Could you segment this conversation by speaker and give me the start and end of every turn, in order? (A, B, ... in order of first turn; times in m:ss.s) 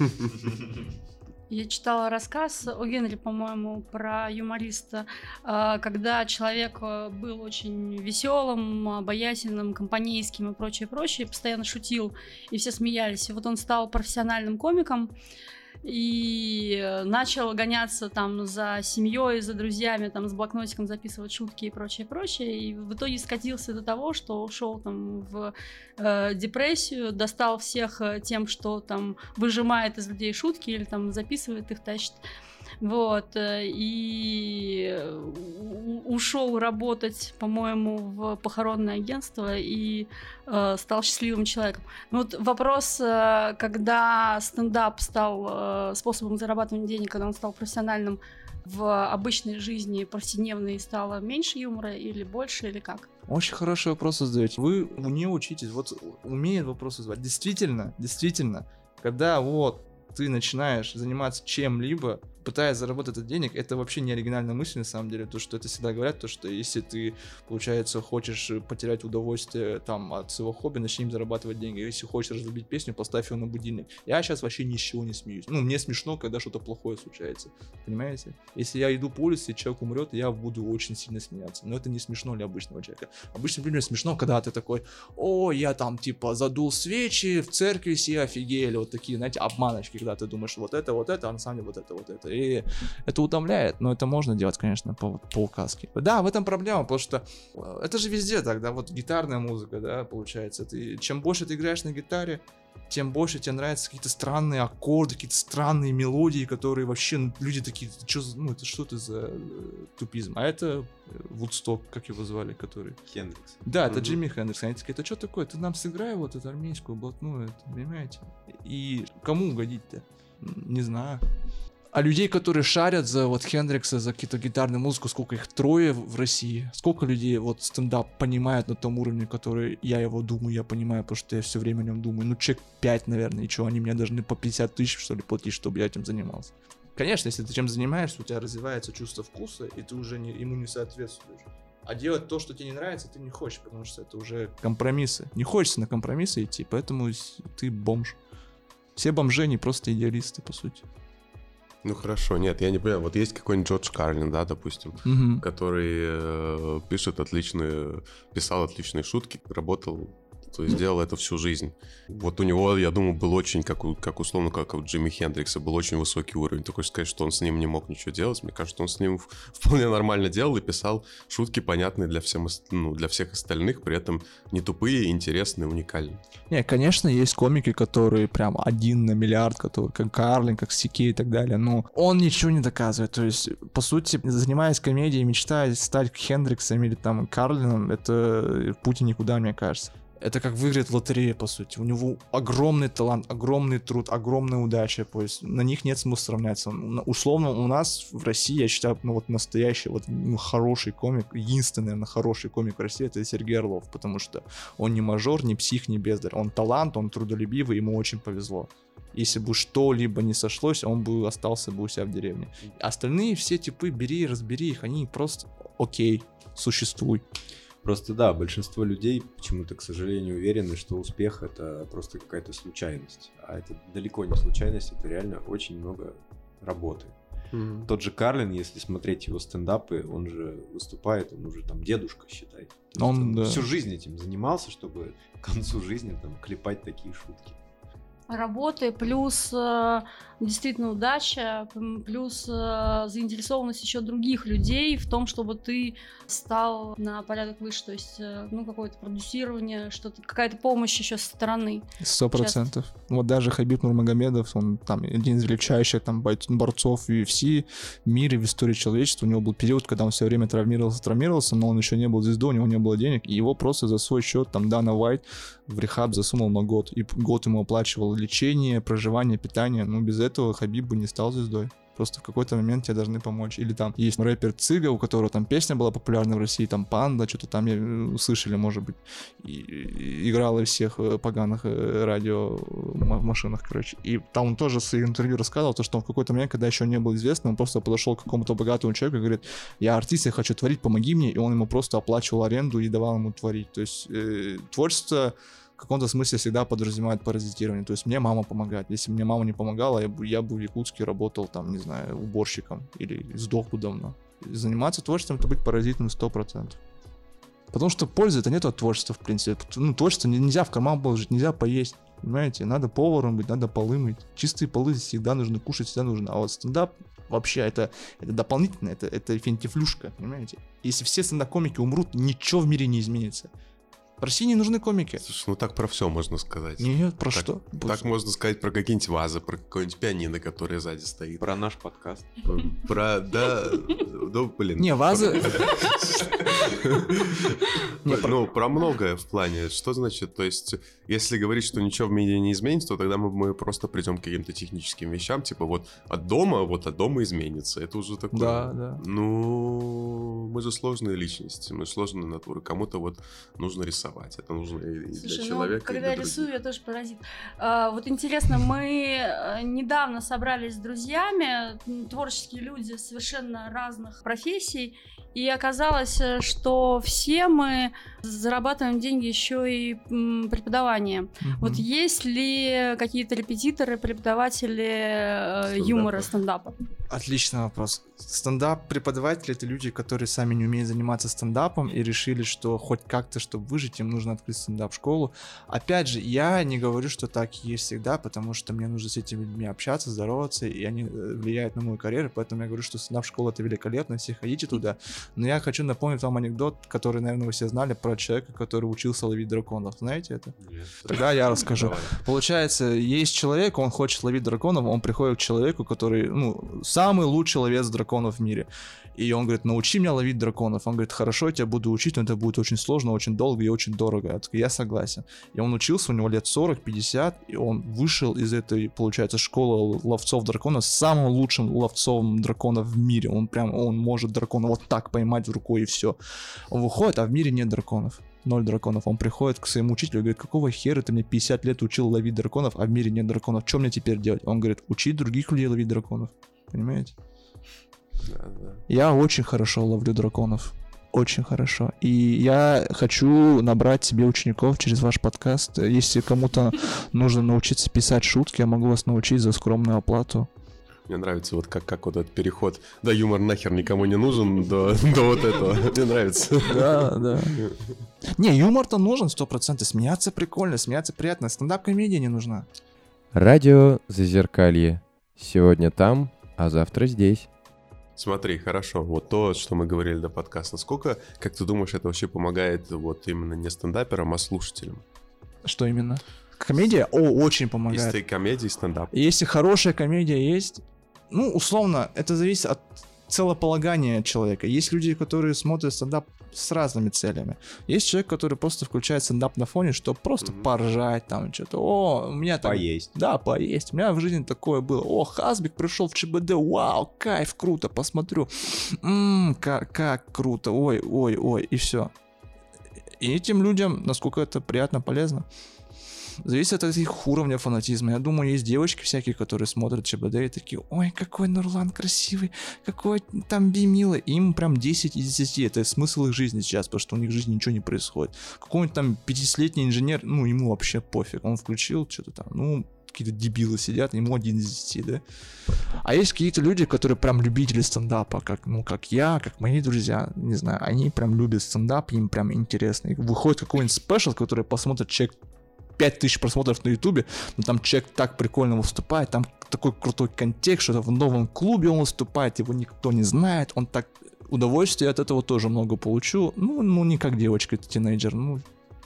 0:01.5-0:15.1 A
0:15.8-0:32.2 A
0:32.8-0:53.1 A
0:53.3-1:53.0 B
1:53.1-1:53.6 C
1:53.6-2:01.2 B
1:53.9-1:54.2 D
2:01.9-2:28.2 B
2:29.0-2:30.8 B
2:31.8-2:56.2 D
2:35.0-2:35.4 B
2:56.5-3:37.2 B
3:37.8-3:47.2 C
3:47.5-3:47.9 D
3:47.8-3:57.6 C
3:53.0-3:53.6 B
3:58.3-4:12.6 A
4:12.0-5:06.8 B
5:07.7-5:23.5 B
5:24.2-5:25.2 B
5:25.2-5:31.5 D
5:26.8-5:28.1 B
5:31.4-5:32.4 C
5:32.4-5:56.5 D
5:34.8-5:35.8 B
5:38.0-5:38.4 B
5:48.3-5:49.0 B
5:55.2-6:16.8 A
6:11.4-6:11.8 B
6:15.7-6:16.3 D
6:17.1-7:06.2 B
6:40.6-6:41.7 C
7:06.7-7:17.1 B
7:18.2-7:18.8 D
7:18.9-7:30.5 B
7:31.1-7:37.8 D
7:36.7-7:37.6 B
7:38.3-7:42.7 B
7:43.3-7:47.5 E
7:48.2-7:55.0 D
7:55.6-7:58.2 B
7:57.9-7:59.1 D
7:59.1-8:22.1 B
8:10.4-8:10.7 D
8:12.6-8:13.1 C
8:23.2-8:25.4 B
8:26.4-8:45.2 B
8:46.0-8:55.3 B
8:56.0-9:08.7 B